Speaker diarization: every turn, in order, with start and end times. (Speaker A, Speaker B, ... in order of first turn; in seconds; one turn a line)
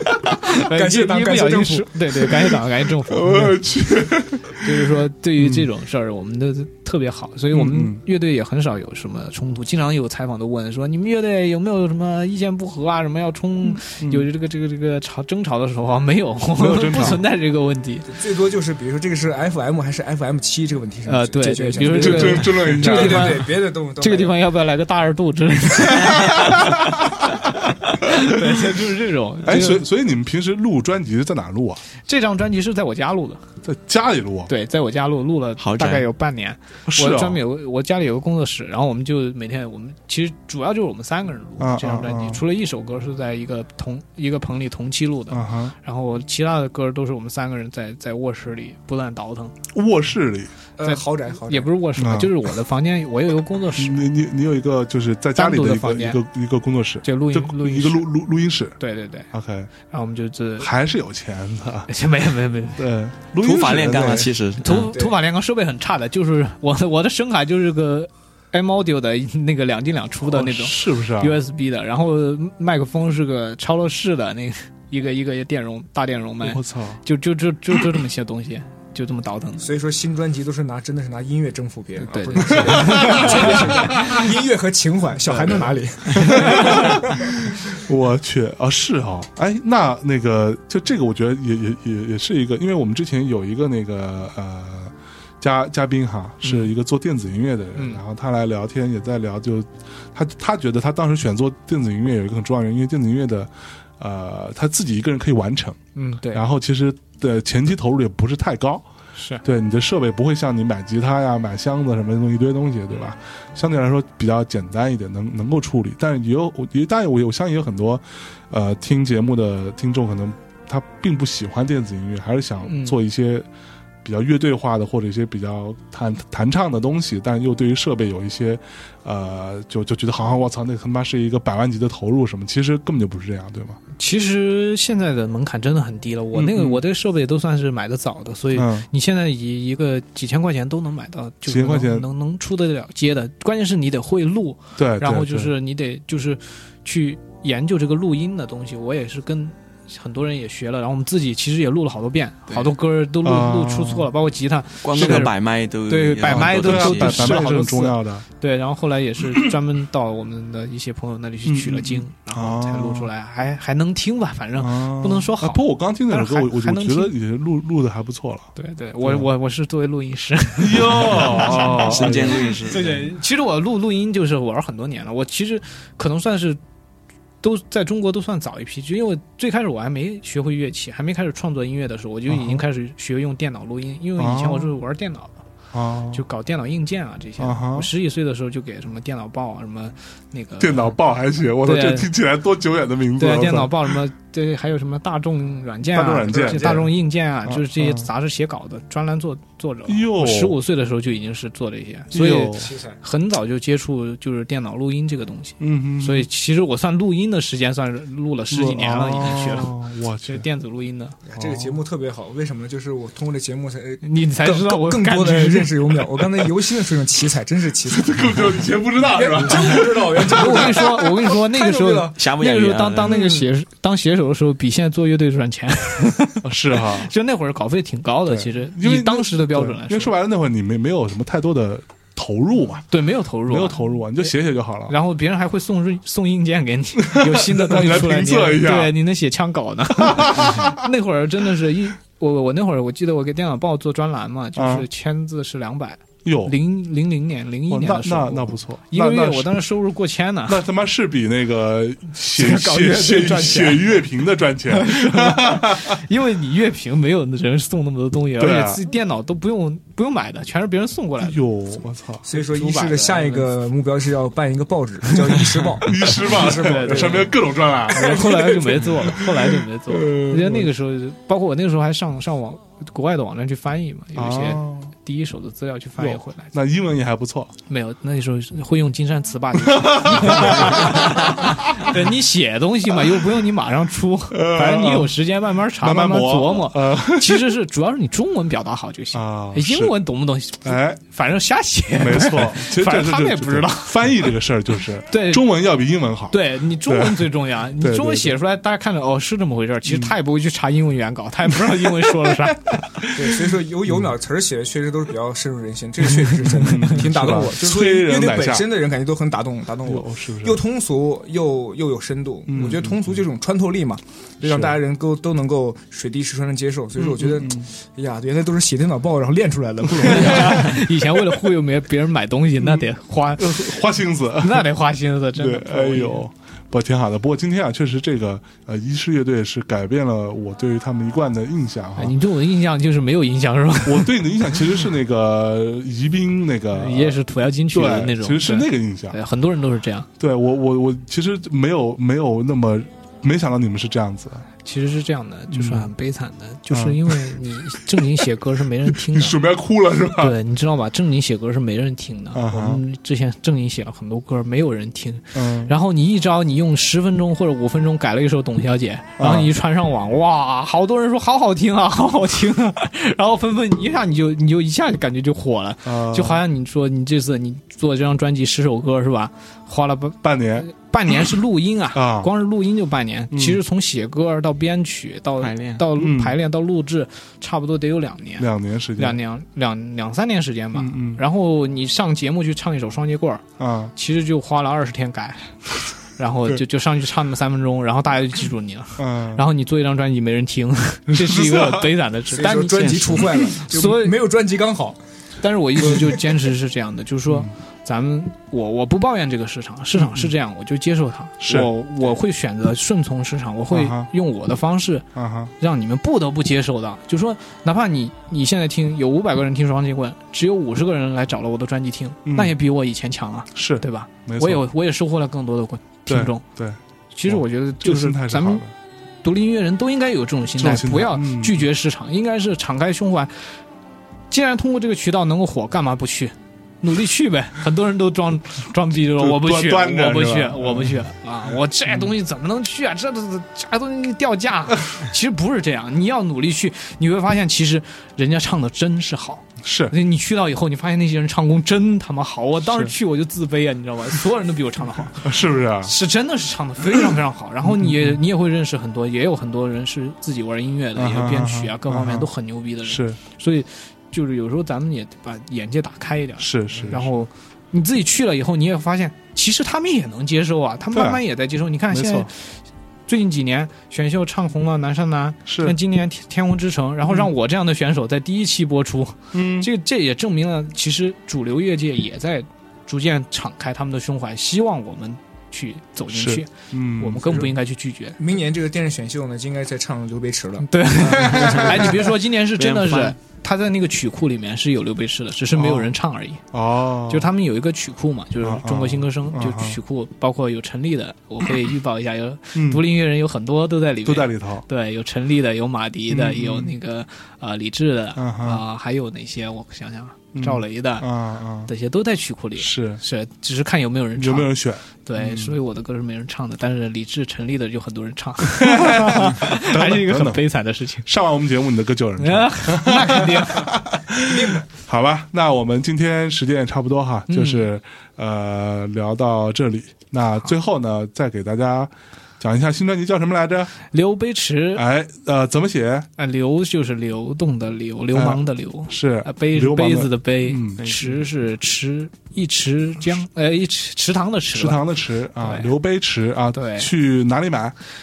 Speaker A: 0.4-3.5
Speaker B: 0.5-2.0
Speaker C: 3.1-4.8
Speaker A: 4.6-18.2
Speaker C: 5.4-5.7
Speaker C: 7.5-8.0
Speaker C: 13.7-14.3
Speaker C: 16.6-17.2
Speaker B: 18.1-24.4
Speaker A: 21.1-27.0
Speaker C: 21.8-23.4
Speaker C: 25.9-26.9
Speaker A: 27.8-29.9
Speaker C: 28.1-28.8
Speaker C: 29.4-31.8
Speaker A: 32.0-33.4
Speaker C: 33.6-34.5
Speaker A: 34.5-49.6
Speaker D: 35.6-36.1
Speaker C: 36.9-37.4
Speaker C: 41.6-42.4
Speaker C: 45.3-45.7
Speaker C: 49.7-50.5
Speaker B: 50.8-51.7
Speaker A: 50.8-54.1
Speaker C: 52.0-52.4
Speaker C: 53.8-58.8
Speaker A: 55.4-56.2
Speaker A: 57.0-58.1
Speaker A: 58.8-59.3
Speaker C: 59.3-59.7
Speaker A: 59.9-60.7
Speaker C: 60.6-61.9
Speaker A: 61.9-62.8
Speaker C: 62.8-64.3
Speaker D: 63.4-64.9
Speaker B: 63.9-64.3
Speaker A: 64.6-79.7
Speaker B: 64.9-65.2
Speaker C: 70.2-71.4
Speaker C: 76.4-77.0
Speaker B: 79.6-87.3
Speaker A: 82.1-84.3
Speaker C: 82.6-84.0
Speaker A: 86.1-87.0
Speaker C: 86.1-105.8
Speaker A: 96.4-96.7
Speaker A: 97.8-98.0
Speaker A: 106.0-106.4
Speaker C: 106.3-108.8
Speaker A: 109.2-109.4
Speaker C: 109.4-123.5
Speaker A: 122.7-123.0
Speaker C: 124.0-133.8
Speaker A: 134.0-155.3
Speaker C: 136.3-136.8
Speaker C: 138.5-138.9
Speaker C: 141.5-142.1
Speaker C: 144.8-145.5
Speaker C: 153.2-154.1
Speaker D: 154.8-157.5
Speaker C: 154.9-155.3
Speaker A: 155.9-167.1
Speaker C: 156.2-158.2
Speaker C: 161.4-163.1
Speaker C: 164.6-168.5
Speaker A: 168.6-176.6
Speaker C: 170.6-172.5
Speaker D: 171.0-173.1
Speaker A: 177.4-185.4
Speaker C: 182.3-182.6
Speaker C: 184.2-184.7
Speaker C: 185.7-186.2
Speaker A: 186.1-190.9
Speaker C: 187.4-187.9
Speaker C: 190.6-194.0
Speaker A: 191.6-192.1
Speaker A: 193.2-209.7
Speaker C: 195.9-196.9
Speaker B: 196.4-196.8
Speaker C: 197.5-198.1
Speaker C: 199.9-200.6
Speaker C: 202.1-202.7
Speaker B: 202.6-203.0
Speaker C: 205.6-206.3
Speaker C: 208.5-210.4
Speaker A: 210.2-211.2
Speaker B: 211.3-222.2
Speaker C: 211.4-211.8
Speaker A: 214.0-216.0
Speaker C: 217.9-221.0
Speaker A: 220.2-230.1
Speaker D: 222.1-223.4
Speaker C: 226.4-227.1
Speaker C: 228.3-232.9
Speaker A: 232.9-234.3
Speaker C: 233.5-234.9
Speaker A: 234.9-250.6
Speaker C: 237.0-238.9
Speaker C: 240.0-240.8
Speaker C: 244.6-244.9
Speaker C: 246.2-246.6
Speaker C: 247.7-249.7
Speaker C: 250.5-256.0
Speaker A: 252.3-254.0
Speaker A: 254.7-261.4
Speaker C: 258.4-258.8
Speaker C: 261.2-262.2
Speaker B: 262.2-267.4
Speaker A: 262.3-263.5
Speaker C: 265.8-270.7
Speaker A: 266.4-267.3
Speaker A: 267.9-276.5
Speaker B: 268.0-268.5
Speaker C: 274.2-274.9
Speaker C: 276.0-277.5
Speaker A: 277.7-294.0
Speaker C: 279.7-281.9
Speaker C: 284.3-285.2
Speaker C: 285.8-287.5
Speaker C: 289.1-289.9
Speaker C: 290.6-291.0
Speaker C: 291.9-298.4
Speaker A: 295.1-295.4
Speaker A: 296.3-303.1
Speaker C: 299.9-300.1
Speaker B: 303.1-320.8
Speaker C: 306.4-308.7
Speaker C: 309.9-310.6
Speaker C: 312.5-313.2
Speaker C: 314.4-314.8
Speaker C: 317.0-317.7
Speaker A: 320.0-326.2
Speaker C: 320.1-320.6
Speaker C: 322.6-324.7
Speaker C: 325.4-332.2
Speaker A: 332.0-334.2
Speaker C: 333.9-337.2
Speaker A: 336.7-340.1
Speaker C: 337.7-339.2
Speaker C: 340.2-344.5
Speaker A: 344.6-349.4
Speaker C: 345.5-345.9
Speaker C: 346.7-347.2
Speaker C: 348.9-350.4
Speaker A: 350.2-383.4
Speaker C: 352.4-352.8
Speaker C: 355.4-355.7
Speaker C: 359.2-359.5
Speaker C: 365.9-366.4
Speaker C: 370.2-370.7
Speaker C: 371.9-372.3
Speaker C: 373.3-373.6
Speaker D: 375.4-375.8
Speaker C: 375.9-376.4
Speaker C: 378.4-379.2
Speaker C: 380.7-381.2
Speaker C: 383.6-383.9
Speaker A: 384.0-394.2
Speaker C: 389.0-389.4
Speaker C: 391.1-392.0
Speaker B: 392.3-395.0
Speaker A: 395.4-405.1
Speaker C: 397.3-397.5
Speaker C: 400.0-400.3
Speaker C: 401.4-401.7
Speaker C: 403.7-404.1
Speaker C: 405.1-405.5
Speaker A: 405.6-416.4
Speaker C: 412.3-412.6
Speaker C: 413.6-414.6
Speaker C: 416.1-418.7
Speaker A: 417.1-418.6
Speaker A: 419.2-423.6
Speaker C: 420.6-421.7
Speaker A: 424.3-462.3
Speaker C: 429.1-431.1
Speaker C: 439.6-439.9
Speaker C: 442.6-442.9
Speaker C: 445.2-445.9
Speaker C: 447.6-448.2
Speaker C: 451.0-452.3
Speaker C: 452.9-453.2
Speaker C: 456.4-457.1
Speaker C: 460.9-461.2
Speaker C: 461.9-462.3
Speaker A: 463.1-478.2
Speaker C: 465.5-465.8
Speaker C: 469.3-469.7
Speaker C: 476.1-477.5
Speaker B: 478.2-481.1
Speaker A: 480.7-486.4
Speaker D: 481.1-483.2
Speaker C: 485.5-485.9
Speaker C: 486.5-487.3
Speaker A: 487.1-501.1
Speaker C: 488.4-489.8
Speaker C: 492.6-492.9
Speaker C: 494.1-494.6
Speaker C: 496.1-496.7
Speaker C: 498.2-498.6
Speaker C: 500.3-501.7
Speaker A: 501.7-504.5
Speaker C: 502.6-503.0
Speaker C: 504.2-505.6
Speaker A: 505.1-511.1
Speaker C: 508.5-510.4
Speaker C: 511.1-523.8
Speaker A: 512.2-513.8
Speaker B: 514.2-514.6
Speaker A: 517.3-517.7
Speaker A: 523.9-524.8
Speaker C: 524.8-526.1
Speaker A: 526.2-534.8
Speaker C: 528.1-530.8
Speaker D: 530.8-531.2
Speaker C: 534.5-537.8
Speaker A: 535.4-535.7
Speaker A: 536.5-536.9